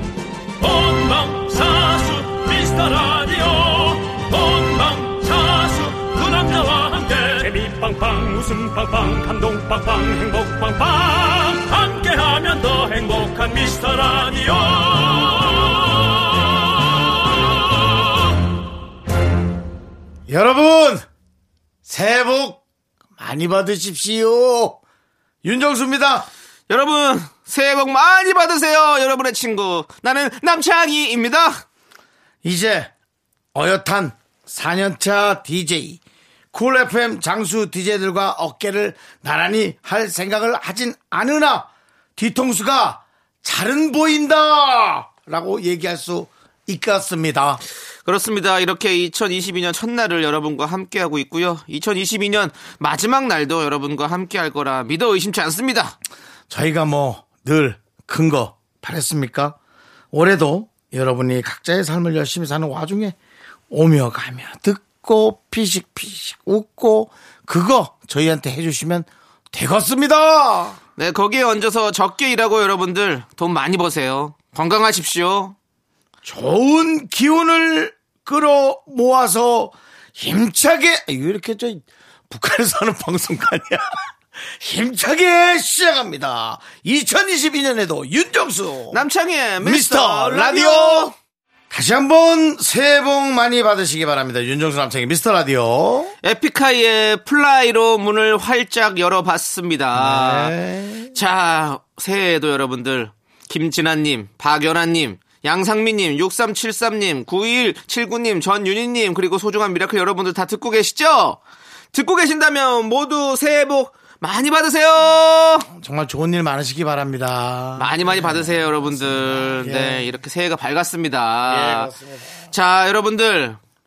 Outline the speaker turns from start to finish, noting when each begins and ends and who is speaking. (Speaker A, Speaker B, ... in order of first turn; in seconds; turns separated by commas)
Speaker A: 0.6-16.5, Speaker A: 17.7-18.0, Speaker B: 20.3-21.0, Speaker B: 21.8-22.6, Speaker B: 23.2-24.8, Speaker B: 25.4-26.3, Speaker C: 26.7-31.6, Speaker B: 32.4-32.9, Speaker B: 33.5-36.0, Speaker B: 36.5-47.6, Speaker C: 48.0-56.0, Speaker B: 56.5-59.6, Speaker B: 60.1-63.1, Speaker B: 63.7-70.8, Speaker C: 71.0-75.5, Speaker B: 76.2-89.0, Speaker C: 88.9-91.1, Speaker B: 89.6-91.1, Speaker B: 91.7-96.1, Speaker C: 96.2-100.5, Speaker B: 99.9-101.1, Speaker C: 101.1-111.4, Speaker C: 111.9-115.7, Speaker B: 115.7-120.1, Speaker C: 117.8-121.9, Speaker B: 121.5-122.5, Speaker C: 122.5-123.6